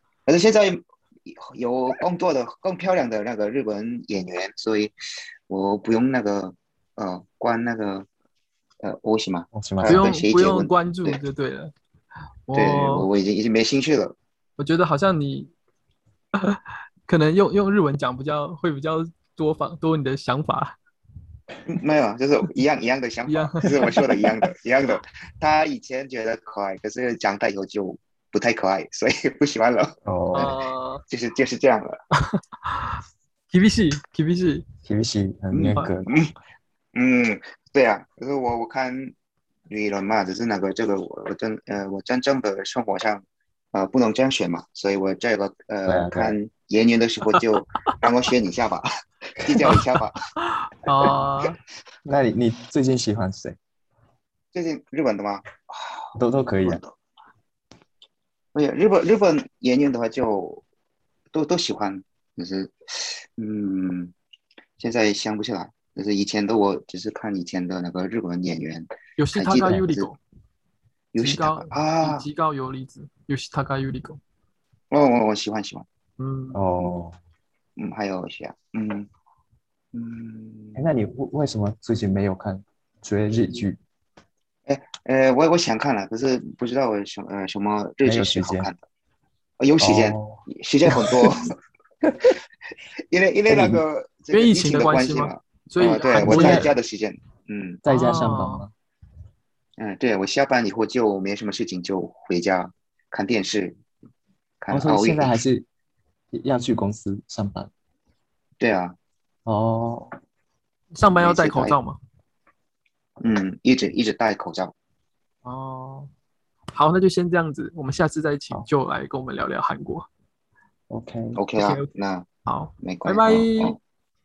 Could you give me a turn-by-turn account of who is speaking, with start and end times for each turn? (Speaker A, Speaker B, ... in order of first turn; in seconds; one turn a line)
Speaker A: 0.3-4.9
Speaker A: 5.5-8.1
Speaker A: 8.8-11.2
Speaker B: 9.5-10.0
Speaker C: 9.9-11.7
Speaker C: 12.5-13.1
Speaker A: 12.5-14.2
Speaker C: 14.6-15.5
Speaker C: 16.4-20.8
Speaker A: 21.7-30.6
Speaker C: 23.3-24.3
Speaker B: 30.1-30.6
Speaker C: 30.3-31.0
Speaker A: 31.1-32.0
Speaker C: 32.1-33.0
Speaker C: 33.5-34.6
Speaker B: 34.9-36.1
Speaker A: 35.5-36.3
Speaker A: 36.9-39.1
Speaker A: 39.7-48.9
Speaker B: 45.9-46.4
Speaker A: 49.4-50.2
Speaker C: 50.4-51.6
Speaker B: 52.0-53.6
Speaker A: 54.5-56.9
Speaker B: 56.1-56.8
Speaker A: 58.5-60.6
Speaker A: 61.3-64.1
Speaker A: 64.8-70.1
Speaker C: 69.2-70.2
Speaker A: 71.1-72.3
Speaker C: 71.2-74.2
Speaker A: 74.9-75.8
Speaker C: 76.2-76.6
Speaker B: 76.5-77.2
Speaker A: 77.8-79.1
Speaker A: 79.9-80.9
Speaker B: 80.8-83.8
Speaker A: 84.7-88.8
Speaker B: 88.0-88.7
Speaker A: 89.6-91.6
Speaker B: 89.8-91.3
Speaker A: 93.1-97.8
Speaker B: 93.5-93.8
Speaker C: 94.3-96.7
Speaker B: 96.2-96.7
Speaker B: 97.8-98.7
Speaker C: 97.9-98.7
Speaker A: 99.8-103.8
Speaker A: 104.6-105.4
Speaker B: 104.7-105.7
Speaker B: 106.3-107.7
Speaker A: 108.6-109.0
Speaker B: 109.5-110.1
Speaker C: 110.9-112.0
Speaker A: 111.2-111.8
Speaker A: 113.2-114.7
Speaker C: 115.4-116.1
Speaker C: 116.7-120.1
Speaker B: 120.9-121.4
Speaker A: 121.3-122.3
Speaker C: 121.6-121.9
Speaker C: 122.5-123.8
Speaker A: 122.8-123.8